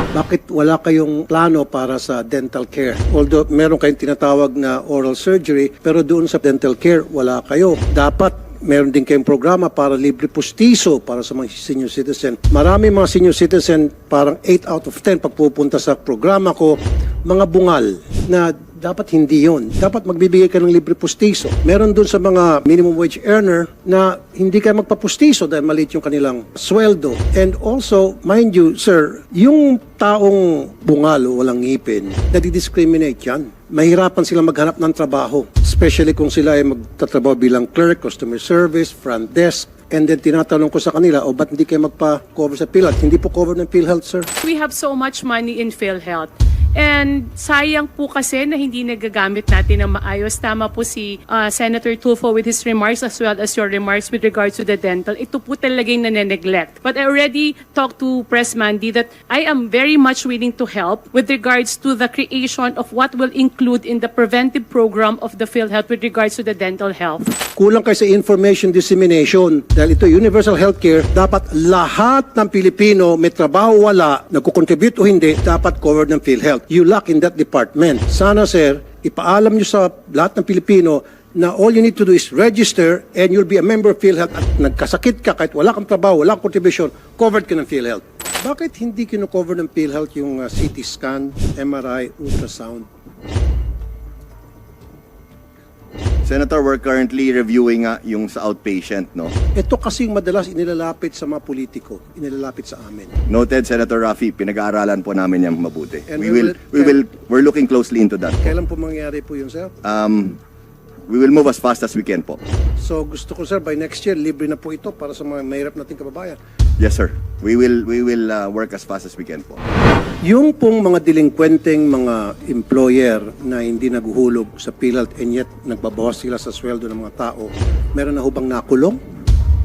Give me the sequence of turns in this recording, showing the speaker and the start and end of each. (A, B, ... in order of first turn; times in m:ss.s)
0:00.1-0:44.3 A
0:44.4-1:07.3 B
1:07.5-1:32.9 A
1:36.2-1:39.3 C
1:39.5-1:43.2 A
1:43.3-1:48.5 C
1:46.1-1:47.0 A
1:48.4-1:49.7 A
1:49.8-1:50.4 C
1:51.1-1:52.4 C
1:52.8-1:56.4 A
1:56.8-1:59.6 C
2:00.2-2:09.0 A